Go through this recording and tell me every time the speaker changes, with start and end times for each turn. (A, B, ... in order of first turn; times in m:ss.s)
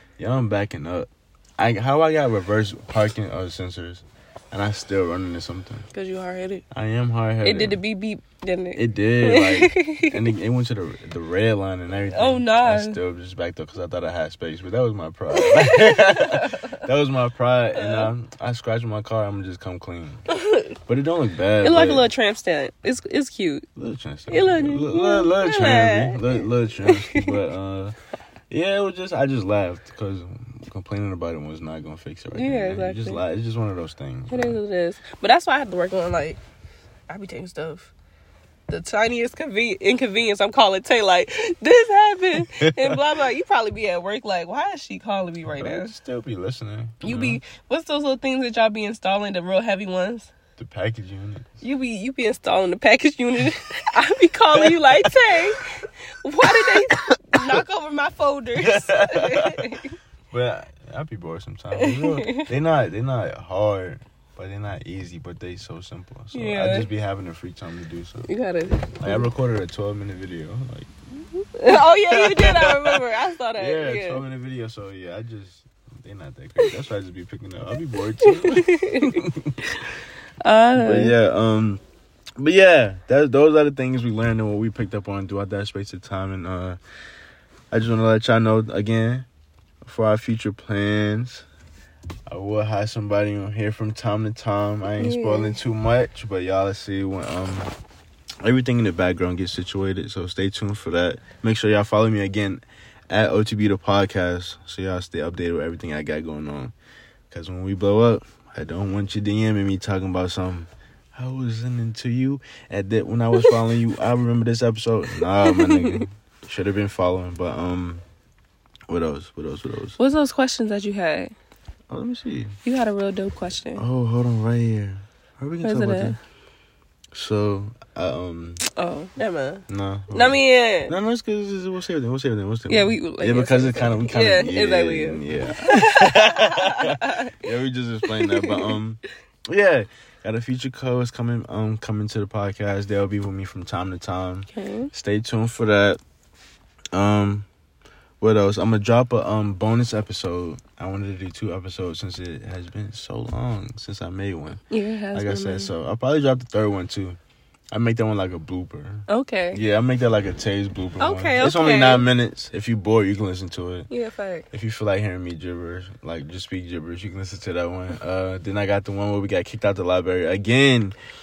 0:00.2-0:05.9 A
0:05.9-0:06.6 B
0:06.7-0:07.8 A
0:07.4-0:10.2 B
0:08.8-0:20.2 A
0:12.1-0:13.0 B
0:15.3-0:16.7 B
0:17.8-0:18.1 B
0:20.3-0:20.7 B
0:20.9-0:22.1 A
0:21.6-0:23.7 B
0:23.8-0:28.0 A
0:24.3-0:27.4 B
0:28.5-0:34.6 A
0:32.3-0:33.2 B
0:34.3-0:36.4 B
0:37.1-0:37.9 B
0:38.7-0:45.9 B
0:42.3-0:43.0 A
0:45.5-0:47.4 A
0:47.0-0:50.3 B
0:50.6-0:51.5 A
0:51.6-1:00.0 B
0:54.5-0:55.4 A
0:56.4-0:57.6 A
0:58.6-0:59.7 A
1:00.3-1:08.3 A
1:01.8-1:02.5 B
1:06.3-1:06.9 B
1:08.2-1:09.3 B
1:09.0-1:13.0 A
1:11.6-1:14.2 B
1:13.5-1:19.6 A
1:18.2-1:19.2 B
1:20.4-1:21.2 B
1:20.8-1:21.8 A
1:22.4-1:26.8 A
1:27.7-1:29.3 A
1:29.8-1:31.5 A
1:32.3-1:37.7 A
1:35.0-1:35.6 B
1:38.4-1:46.7 A
1:47.3-1:58.0 A
1:55.2-1:56.0 B
1:58.9-2:00.0 A
2:00.0-2:01.3 B
2:01.9-2:02.6 A
2:02.6-2:03.8 B
2:03.8-2:06.2 A
2:05.6-2:06.2 B
2:07.1-2:08.6 A
2:08.8-2:10.9 B
2:09.7-2:26.0 A
2:12.7-2:17.4 B
2:18.0-2:18.8 B
2:24.5-2:24.9 B
2:26.9-2:27.5 A
2:28.2-2:37.2 A
2:34.7-2:35.7 B
2:37.7-2:43.9 A
2:39.1-2:39.6 B
2:41.0-2:42.1 B
2:43.9-2:44.5 B
2:44.5-2:51.0 A